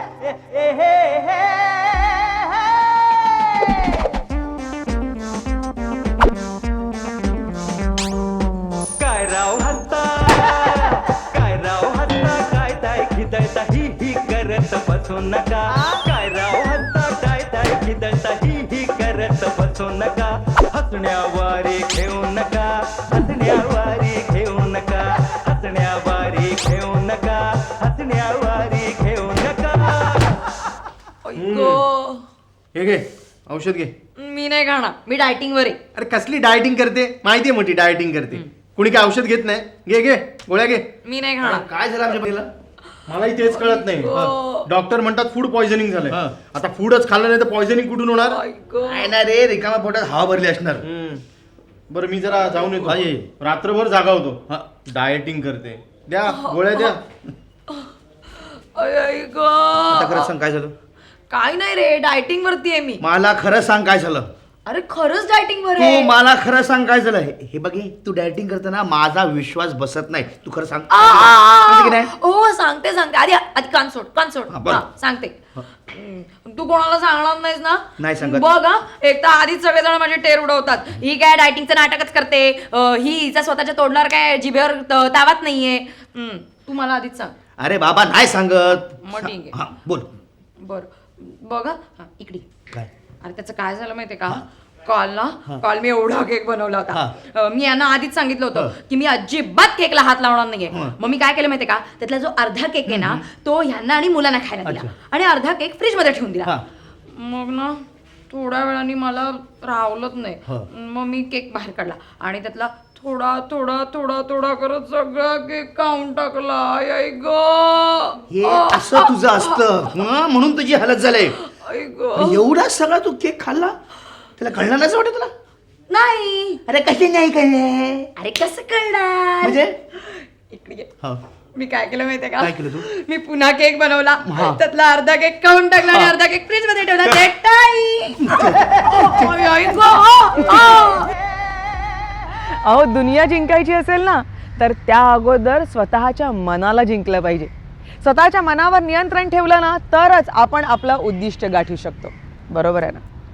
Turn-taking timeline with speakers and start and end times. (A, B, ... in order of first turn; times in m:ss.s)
0:09.0-0:30.4 A
0:31.2-0:32.2 B
0:31.4-0:31.8 C
0:32.7-0:33.9 C
0:34.2-0:35.8 B
0:36.0-0:40.8 C
0:41.0-0:41.7 B
0:41.4-0:42.5 D
0:43.1-0:48.4 C
0:43.4-0:44.7 B
0:46.1-0:46.4 D
0:48.2-0:49.1 B
0:48.8-0:50.8 D
0:50.8-0:51.2 C
0:51.9-0:57.0 C
0:52.8-0:53.3 D
0:56.3-0:57.0 B
0:57.7-1:00.3 B
0:59.9-1:00.7 D
1:01.3-1:03.0 B
1:03.0-1:04.3 D
1:04.7-1:06.1 B
1:05.8-1:12.1 D
1:10.9-1:15.4 B
1:14.5-1:14.8 D
1:15.9-1:27.3 B
1:18.0-1:18.5 D
1:27.6-1:30.1 D
1:29.0-1:29.6 B
1:30.6-1:32.5 B
1:33.2-1:46.5 B
1:42.9-1:43.2 D
1:44.6-1:44.9 D
1:47.1-1:59.8 B
1:58.3-2:01.4 D
2:01.3-2:02.4 B
2:02.2-2:03.8 D
2:04.4-2:05.3 D
2:05.9-2:06.6 B
2:06.7-2:08.1 D
2:08.2-2:10.9 B
2:09.4-2:09.8 D
2:11.6-2:21.1 B
2:12.4-2:12.9 D
2:14.2-2:14.6 D
2:18.2-2:19.3 D
2:22.6-2:27.5 E
2:28.0-2:33.0 E